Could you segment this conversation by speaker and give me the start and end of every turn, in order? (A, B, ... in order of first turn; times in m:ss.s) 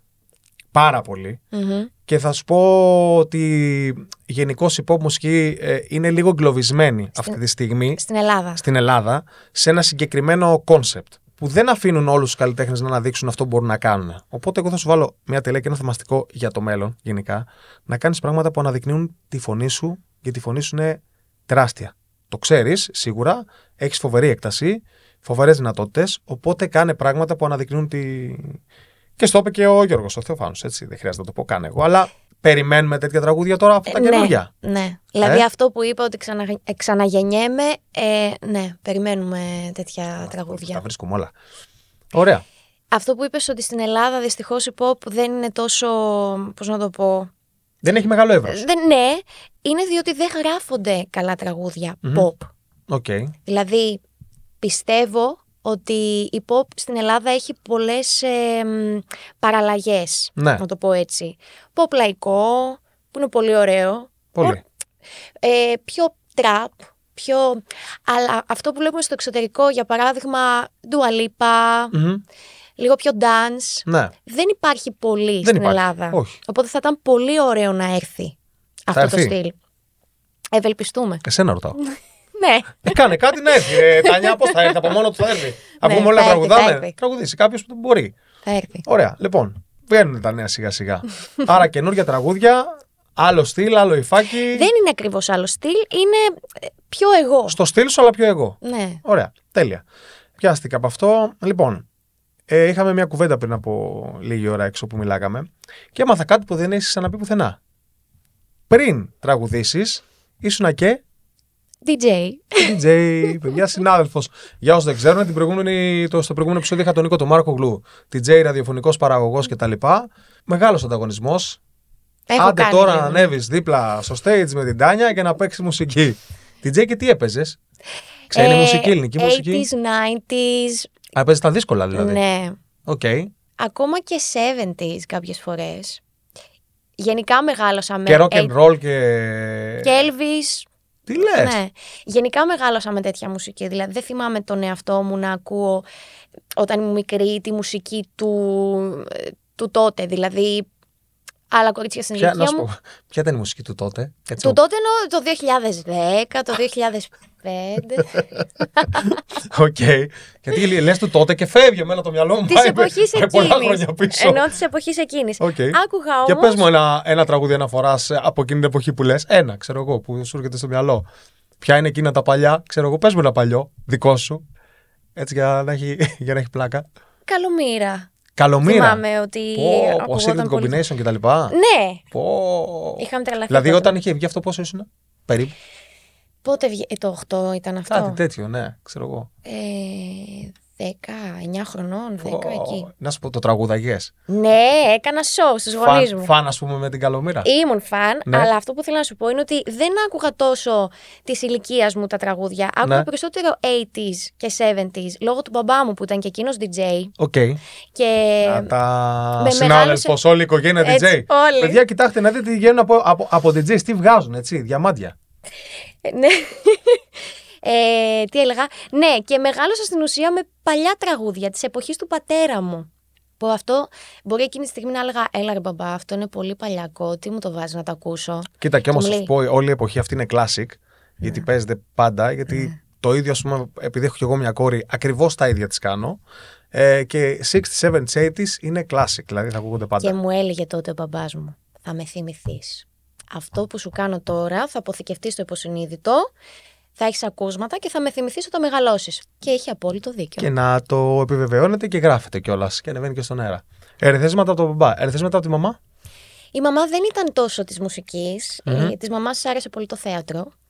0:00.7-0:01.4 A
0:01.5-0:01.9 B
0:02.1-0:08.0 A
0:08.0-0:08.6 B
0:08.6-0:28.6 A
0:29.2-0:34.5 A
0:33.9-0:40.8 B
0:40.2-0:41.3 A
0:42.1-0:42.4 A
0:42.9-0:47.3 B
0:47.8-0:48.6 A
0:48.5-0:52.5 B
0:52.9-0:53.3 A
0:53.5-0:54.0 B
0:54.6-1:04.6 B
1:00.4-1:00.6 A
1:04.4-1:04.6 A
1:05.4-1:12.0 B
1:11.9-1:12.2 A
1:12.8-1:18.4 B
1:13.9-1:14.1 A
1:15.4-1:16.4 A
1:18.9-1:19.6 B
1:18.9-1:19.4 A
1:20.5-1:21.2 B
1:21.2-1:21.8 A
1:21.8-1:23.1 B
1:22.8-1:28.2 A
1:23.7-1:24.8 B
1:25.8-1:26.9 B
1:28.4-1:28.9 B
1:28.9-1:34.7 A
1:34.5-1:37.6 B
1:37.5-1:39.8 A
1:38.6-1:39.0 B
1:40.4-1:41.9 A
1:42.5-1:47.6 A
1:48.7-1:51.0 A
1:51.8-1:52.8 B
1:52.6-2:01.6 A
2:02.3-2:03.3 B
2:02.4-2:07.6 A
2:08.3-2:09.7 A
2:08.3-2:10.9 B
2:11.1-2:12.2 A
2:12.0-2:12.6 B
2:12.9-2:13.3 A
2:13.6-2:16.0 B
2:17.0-2:18.5 B
2:18.1-2:20.0 A
2:19.8-2:20.7 B
2:21.1-2:21.6 A
2:21.3-2:25.9 B
2:26.6-2:30.7 B
2:31.5-2:32.7 B
2:32.2-2:34.6 A
2:34.4-2:38.2 B
2:38.8-2:39.0 B
2:39.0-2:44.5 A
2:42.5-2:46.6 B
2:45.4-2:51.0 A
2:51.6-2:54.4 A
2:55.2-2:56.9 A
2:57.3-3:00.8 B
2:58.4-2:59.0 A
2:59.5-3:01.6 A
3:01.5-3:02.0 B
3:02.1-3:05.6 A
3:03.0-3:04.0 B
3:06.4-3:08.2 B
3:07.9-3:09.3 A
3:09.4-3:12.9 B
3:12.2-3:14.1 A
3:14.3-3:16.3 B
3:15.8-3:17.5 A
3:17.4-3:27.1 B
3:18.3-3:18.5 A
3:27.2-3:27.6 A
3:27.9-3:28.7 B
3:28.4-3:35.2 A
3:29.4-3:30.2 B
3:30.8-3:31.8 B
3:36.0-3:37.0 B
3:37.6-3:42.9 B
3:43.4-3:49.3 B
3:48.6-3:56.2 A
3:56.7-4:00.2 A
4:00.0-4:06.3 B
4:07.0-4:10.5 B
4:10.4-4:15.8 A
4:16.5-4:20.5 B
4:18.7-4:18.9 A